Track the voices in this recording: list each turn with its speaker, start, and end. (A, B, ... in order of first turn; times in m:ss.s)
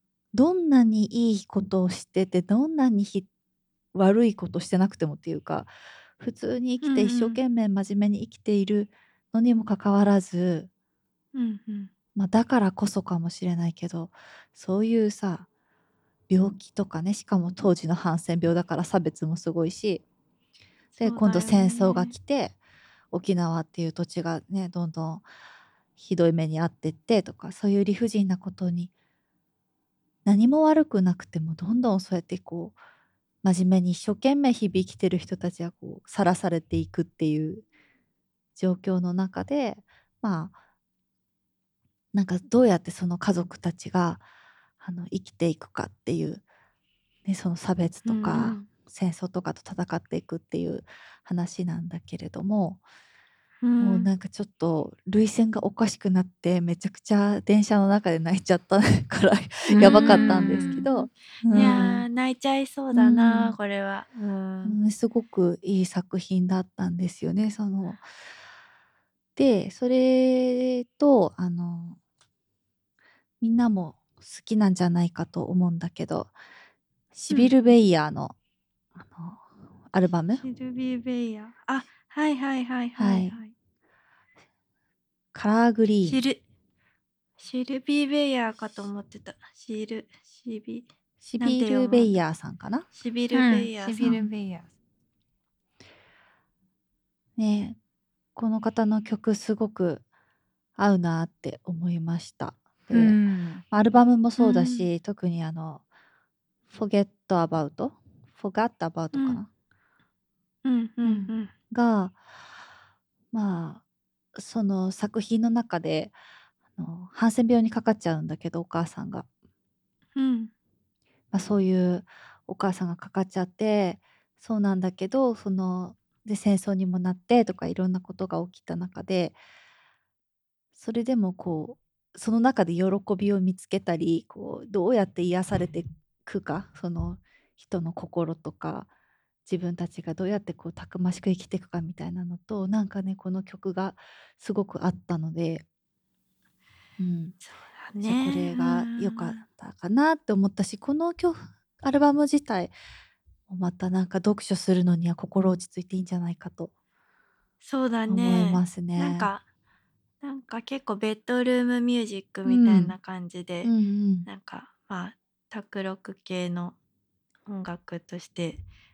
0:00.3-0:03.3 A
0:03.9-0:10.7 A
0:06.8-0:07.4 B
0:11.3-0:11.9 B
0:12.1-0:15.5 A
0:16.3-0:20.0 A
0:20.9-0:22.1 B
0:21.0-0:22.6 A
0:23.1-0:25.2 A
0:26.0-0:28.9 A
0:30.2-0:32.8 A
0:33.4-0:37.6 A
0:38.6-0:40.5 A
0:42.1-0:44.2 A
0:44.8-0:46.4 A
0:47.2-0:52.8 A
0:48.0-0:48.7 B
0:53.6-0:54.1 B
0:53.8-1:02.0 A
0:59.7-1:00.8 C
0:59.8-1:04.8 B
1:02.9-1:03.5 A
1:04.6-1:08.0 A
1:09.4-1:12.0 A
1:13.4-1:16.3 A
1:17.1-1:18.3 A
1:17.3-1:17.5 B
1:19.0-1:20.4 A
1:20.4-1:23.5 B
1:23.0-1:23.4 A
1:25.3-1:26.2 A
1:26.0-1:26.4 B
1:27.4-1:30.9 B
1:31.2-1:32.8 A
1:31.4-1:32.1 B
1:32.9-1:34.1 B
1:33.3-1:34.7 C
1:34.0-1:34.3 A
1:37.4-1:37.8 A
1:38.4-1:40.0 A
1:40.8-1:45.8 A
1:42.9-1:43.6 C
1:44.4-1:44.9 B
1:46.7-1:49.5 A
1:49.1-1:49.4 B
1:50.6-1:51.5 B
1:51.0-1:51.3 C
1:51.7-1:52.2 A
1:53.3-1:53.8 A
1:54.4-1:56.1 A
1:56.8-1:59.3 A
2:00.2-2:00.5 B
2:01.3-2:09.4 A
2:10.7-2:18.9 A
2:19.4-2:25.6 A
2:27.0-2:27.4 A
2:27.4-2:29.4 B
2:28.0-2:32.7 A
2:33.5-2:36.7 A
2:37.6-2:39.4 B
2:38.1-2:39.3 A
2:40.2-2:43.7 B
2:42.4-2:43.0 A
2:43.6-2:44.3 A
2:44.2-2:46.8 B
2:47.5-2:48.6 B